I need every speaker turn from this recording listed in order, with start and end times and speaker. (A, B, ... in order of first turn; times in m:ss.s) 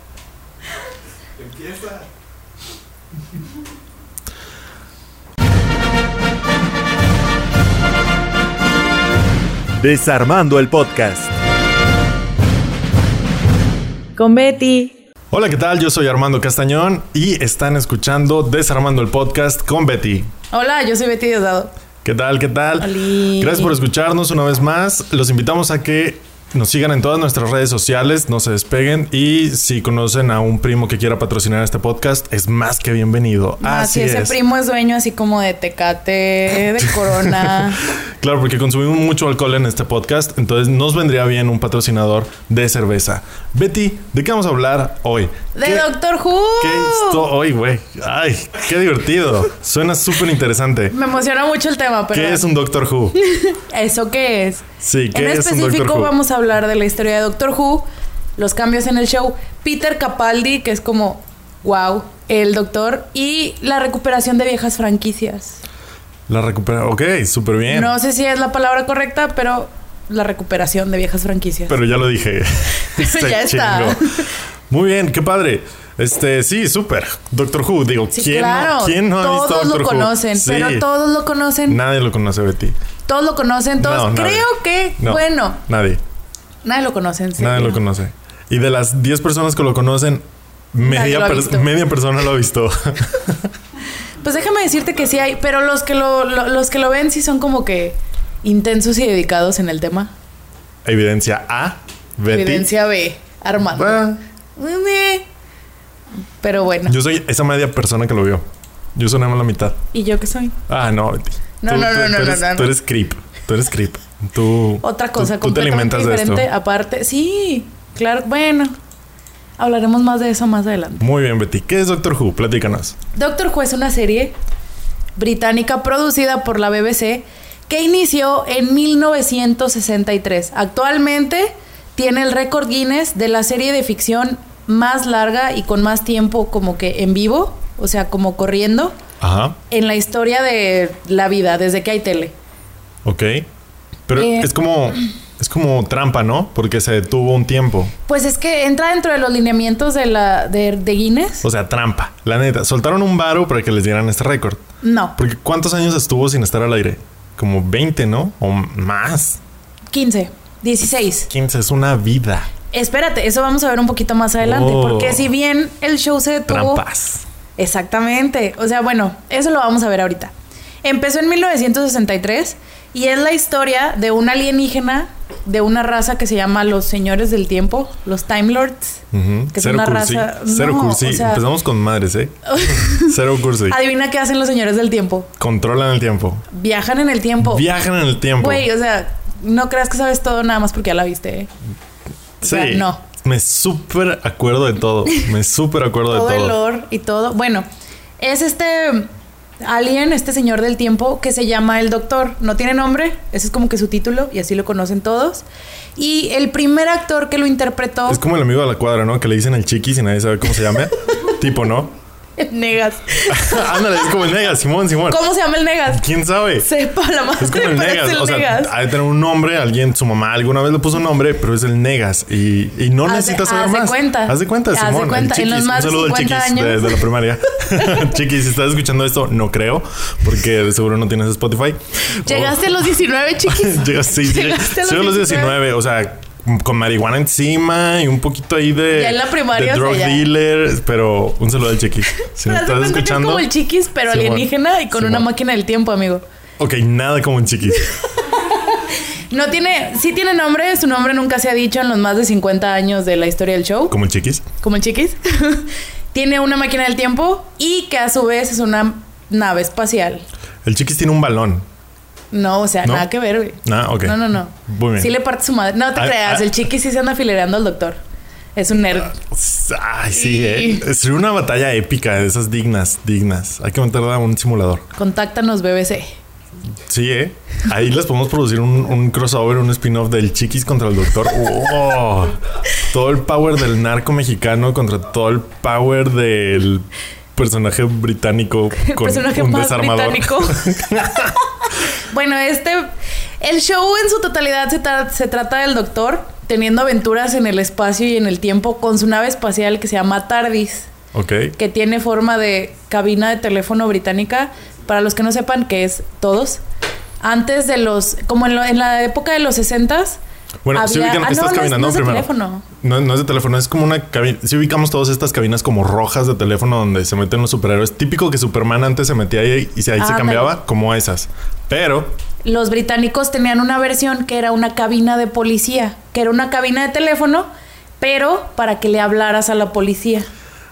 0:09.8-0:11.3 A
0:14.2-0:14.9 B
0:15.3-0:20.3 A
0:20.5-0:21.7 B
0:22.0-0:34.4 A
0:22.8-0:23.8 B
0:33.6-0:37.8 B
0:36.8-0:45.9 A
0:45.5-0:47.2 B
0:46.6-0:51.0 A
0:50.9-0:52.5 B
0:52.1-0:53.2 A
0:53.1-0:57.8 B
0:54.8-0:56.1 A
0:58.4-1:05.6 B
1:06.3-1:07.9 A
1:07.7-1:11.8 B
1:11.7-1:20.9 A
1:13.0-1:14.3 B
1:18.1-1:21.8 B
1:21.7-1:22.8 A
1:23.0-1:25.6 B
1:23.8-1:26.0 A
1:26.6-1:27.8 B
1:27.4-1:33.5 A
1:30.8-1:31.7 B
1:34.2-1:40.1 B
1:40.8-1:42.7 A
1:42.3-1:45.2 B
1:43.7-1:44.2 A
1:46.4-1:47.0 B
1:46.8-1:48.4 A
1:48.9-1:49.8 A
1:49.9-1:50.6 B
1:50.7-1:56.5 A
1:51.6-1:52.8 B
1:54.8-1:58.7 B
1:59.6-2:01.0 B
2:01.0-2:03.0 A
2:03.1-2:04.3 B
2:05.2-2:19.0 B
2:19.2-2:19.6 A
2:19.7-2:22.3 B
2:23.0-2:23.4 A
2:24.1-2:27.9 A
2:24.2-2:24.5 B
2:28.1-2:31.4 B
2:31.4-2:34.6 A
2:34.8-2:35.2 B
2:35.2-2:39.4 A
2:39.9-2:41.3 B
2:41.3-2:42.5 A
2:42.7-2:46.8 B
2:44.4-2:45.3 A
2:46.5-2:47.2 A
2:47.6-2:59.0 B
2:59.1-3:03.8 A
2:59.5-3:01.4 B
3:02.5-3:05.3 B
3:05.4-3:06.4 A
3:06.5-3:07.6 B
3:07.4-3:08.7 A
3:08.4-3:11.5 B
3:12.4-3:16.6 A
3:12.4-3:13.0 B
3:16.1-3:17.6 B
3:18.2-3:19.1 B
3:19.6-3:25.4 B
3:26.0-3:28.2 B
3:28.1-3:31.9 A
3:32.4-3:34.1 B
3:33.3-3:35.2 A
3:35.1-3:36.0 B
3:35.9-3:36.7 A
3:36.6-3:38.7 B
3:37.4-3:52.7 A
3:43.0-3:47.0 B
3:52.2-3:55.6 B
3:53.4-4:03.5 A
3:58.9-4:00.2 B
4:02.2-4:06.2 B
4:04.1-4:05.3 A
4:06.6-4:07.9 A
4:08.3-4:13.9 B
4:13.9-4:14.4 A
4:14.6-4:20.2 B
4:20.6-4:21.6 A
4:22.3-4:28.0 B
4:23.6-4:25.1 A
4:26.0-4:26.5 A
4:28.6-4:29.2 B
4:29.0-4:34.8 A
4:30.1-4:30.8 B
4:35.0-4:36.2 B
4:36.9-4:51.3 A
4:48.8-4:51.3 B
4:51.9-5:00.9 B
5:01.1-5:01.5 A
5:01.6-5:06.6 B
5:07.2-5:10.2 B
5:10.6-5:22.1 A
5:10.7-5:12.6 B
5:20.0-5:20.5 B
5:22.4-5:27.5 B
5:28.0-5:30.3 B